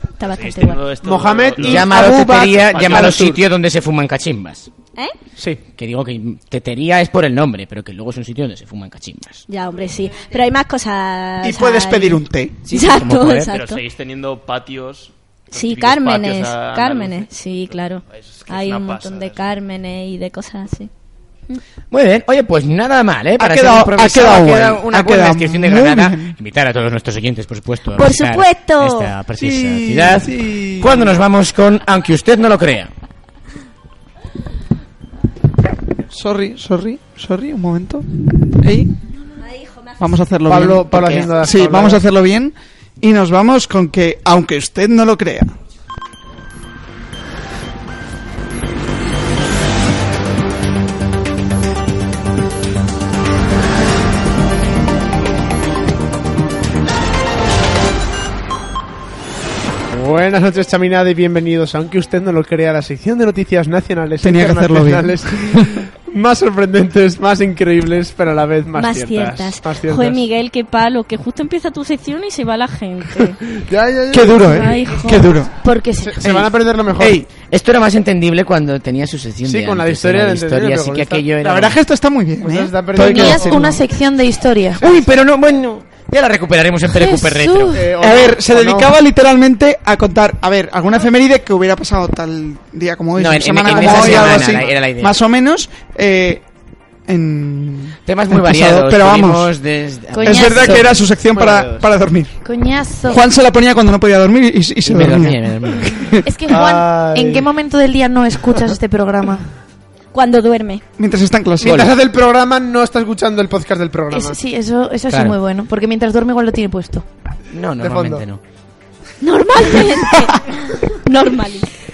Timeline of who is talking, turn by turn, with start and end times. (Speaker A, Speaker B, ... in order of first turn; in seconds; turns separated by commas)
Speaker A: 0.2-0.9, Speaker B: 0.3-3.1, Speaker C: 1.0-3.4, Speaker D: 1.6-4.7, Speaker D: 5.8-9.4, Speaker A: 9.5-13.8, Speaker E: 11.4-12.6, Speaker D: 12.6-13.8, Speaker B: 13.6-19.6, Speaker A: 15.5-20.9, Speaker D: 21.9-32.9, Speaker E: 23.4-26.4, Speaker A: 27.9-29.1, Speaker C: 29.4-31.1, Speaker E: 36.1-38.9, Speaker A: 39.4-40.2, Speaker E: 40.0-45.5, Speaker C: 40.5-42.0, Speaker C: 59.9-70.2, Speaker E: 64.2-65.8, Speaker A: 68.8-73.4, Speaker C: 73.2-74.7, Speaker E: 74.1-75.5, Speaker A: 74.4-75.4, Speaker F: 75.6-76.4, Speaker C: 76.0-77.2, Speaker E: 77.0-77.2, Speaker D: 77.3-81.8, Speaker C: 79.4-81.8, Speaker E: 81.6-83.8, Speaker C: 82.4-83.8, Speaker F: 83.0-84.8, Speaker D: 84.8-87.8, Speaker F: 86.9-87.9, Speaker C: 87.7-89.0, Speaker E: 88.0-96.4, Speaker D: 93.2-95.2, Speaker C: 93.7-94.7, Speaker E: 97.1-99.5, Speaker D: 98.0-100.9, Speaker F: 100.1-100.9, Speaker E: 100.2-102.4, Speaker C: 101.3-101.9, Speaker F: 102.4-103.2, Speaker E: 103.1-106.2, Speaker D: 104.8-105.9, Speaker F: 106.2-109.5, Speaker C: 106.5-107.5, Speaker A: 110.1-110.8, Speaker E: 111.0-111.9, Speaker C: 111.6-114.4, Speaker F: 114.1-117.0, Speaker D: 115.1-115.3, Speaker D: 117.5-118.4, Speaker C: 117.8-118.2, Speaker A: 119.2-121.7